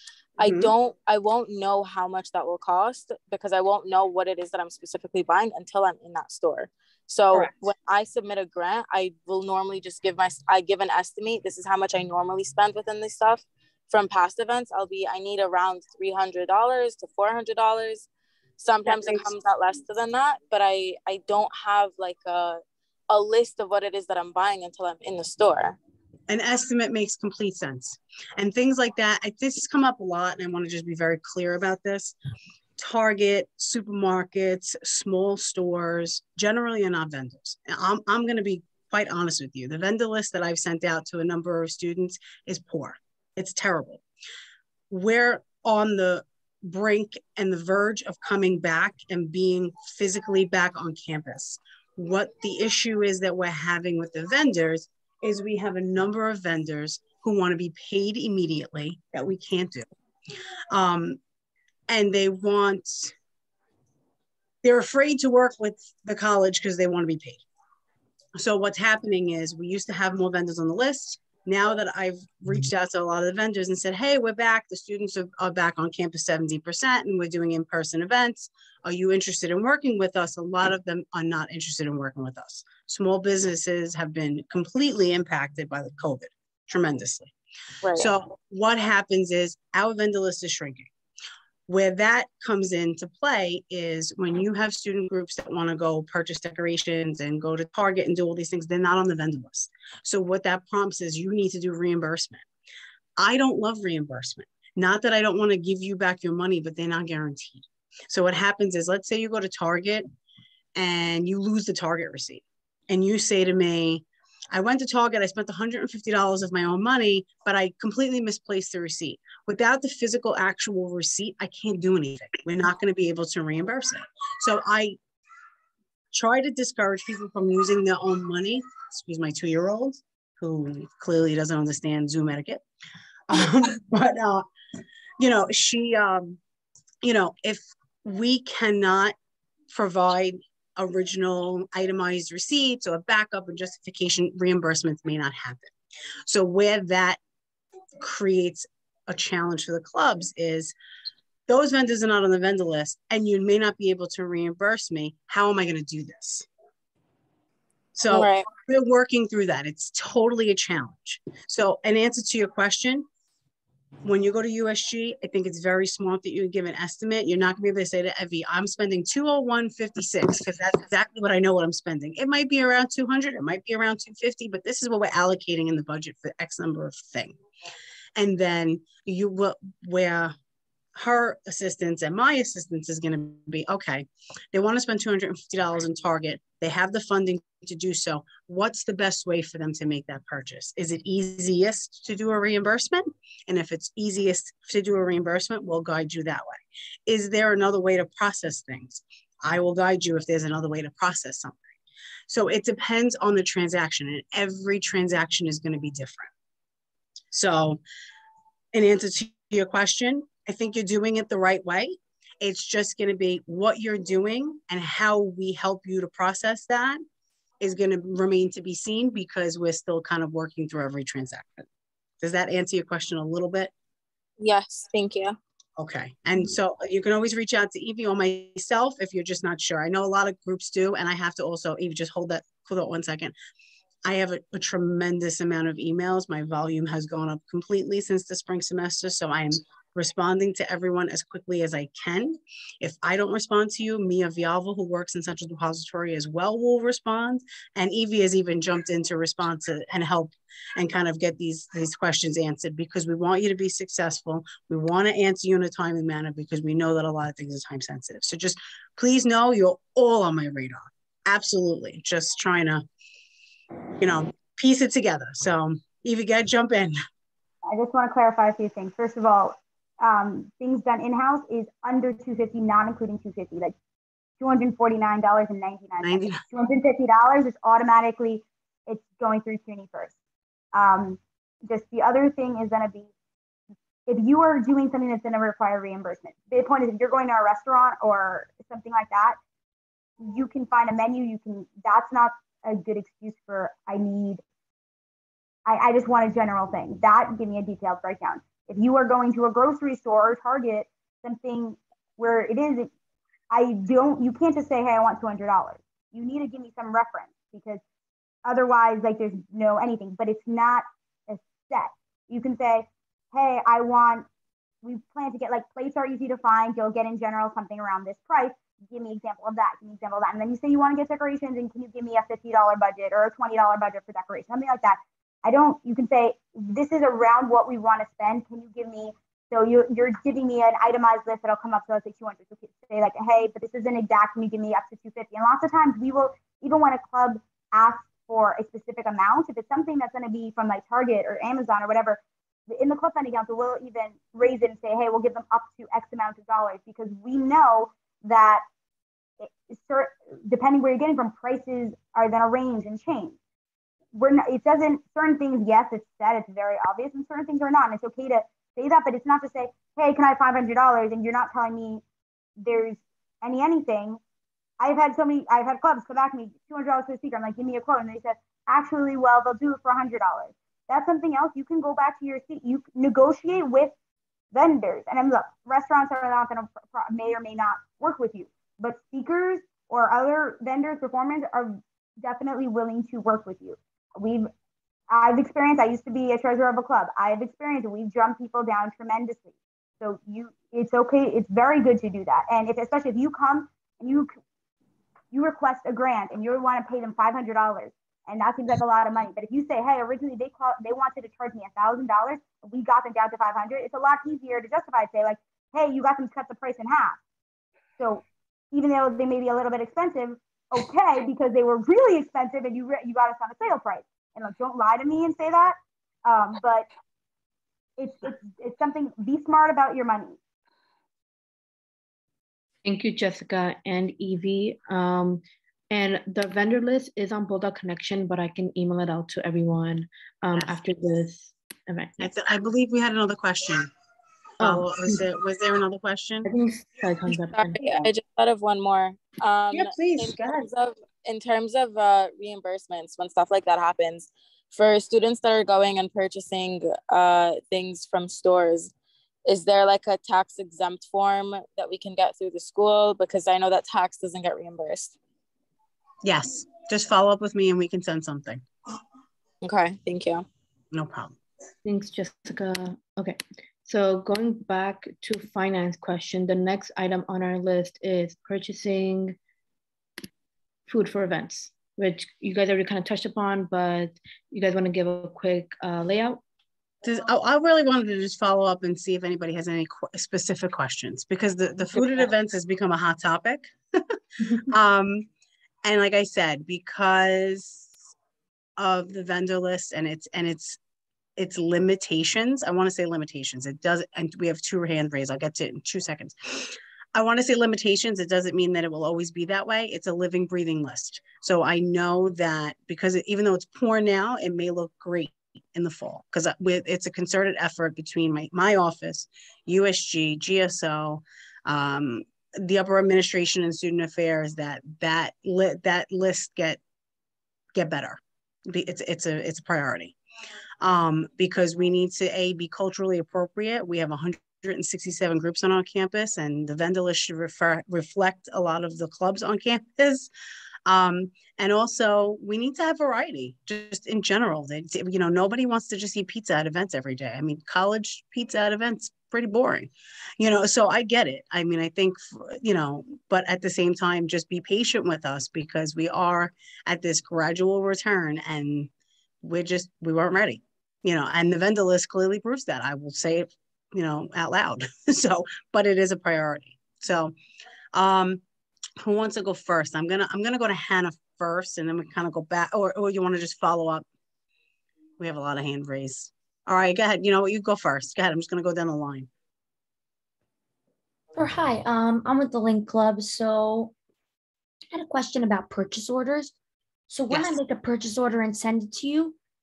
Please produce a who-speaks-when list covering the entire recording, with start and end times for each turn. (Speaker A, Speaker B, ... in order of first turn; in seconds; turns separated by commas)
Speaker A: 0.4-25.8, Speaker B: 0.4-0.7, Speaker B: 18.9-19.3, Speaker B: 26.3-32.1, Speaker B: 32.8-44.0, Speaker B: 44.9-59.9, Speaker B: 60.7-61.2, Speaker B: 61.9-63.1, Speaker B: 64.6-67.4, Speaker B: 68.3-87.3, Speaker A: 87.8-88.1, Speaker B: 87.9-90.9, Speaker B: 91.7-102.5, Speaker B: 103.2-110.1, Speaker B: 110.7-125.0, Speaker B: 126.1-132.6, Speaker B: 133.3-134.4, Speaker B: 135.2-136.4, Speaker B: 137.0-139.2, Speaker B: 139.7-145.7, Speaker B: 146.2-147.2, Speaker B: 148.0-150.7, Speaker B: 151.5-156.5, Speaker B: 157.9-163.1, Speaker A: 158.1-158.4, Speaker B: 164.0-177.4, Speaker B: 178.2-180.3, Speaker B: 180.9-201.6, Speaker B: 202.3-206.3, Speaker B: 207.3-207.8, Speaker B: 208.7-217.0, Speaker B: 217.6-221.6, Speaker B: 222.2-223.7, Speaker A: 224.4-225.4, Speaker B: 225.8-233.3, Speaker B: 234.0-262.8, Speaker B: 264.0-266.9, Speaker C: 267.6-273.7, Speaker C: 274.4-280.1, Speaker B: 276.0-276.4, Speaker C: 280.7-283.1, Speaker C: 284.1-289.4, Speaker C: 290.2-294.4, Speaker C: 295.6-302.9, Speaker C: 303.5-307.8, Speaker C: 308.4-314.2, Speaker C: 314.8-348.6, Speaker C: 349.4-353.4, Speaker C: 354.1-362.0, Speaker C: 362.6-364.2, Speaker C: 364.8-373.9, Speaker C: 374.5-384.5, Speaker C: 385.1-394.3, Speaker C: 395.3-407.2, Speaker C: 408.0-416.9, Speaker C: 418.0-420.4, Speaker D: 422.8-432.3, Speaker B: 432.2-433.9, Speaker B: 434.6-436.5, Speaker D: 434.6-435.2, Speaker D: 436.4-438.1, Speaker A: 437.5-448.9, Speaker B: 439.7-440.7, Speaker A: 449.4-455.1, Speaker B: 456.2-458.6, Speaker A: 459.6-460.4, Speaker B: 460.9-461.4, Speaker D: 461.8-469.4, Speaker D: 470.9-476.4, Speaker B: 477.0-484.0, Speaker B: 484.7-485.3, Speaker B: 485.8-488.0, Speaker B: 488.8-490.8, Speaker B: 491.4-516.8, Speaker B: 517.7-520.1, Speaker B: 520.8-530.3, Speaker B: 530.9-548.9, Speaker B: 549.4-557.3, Speaker B: 557.9-558.4, Speaker B: 559.0-564.0, Speaker B: 565.2-569.3, Speaker E: 571.3-573.9, Speaker E: 574.9-576.5, Speaker E: 577.1-579.4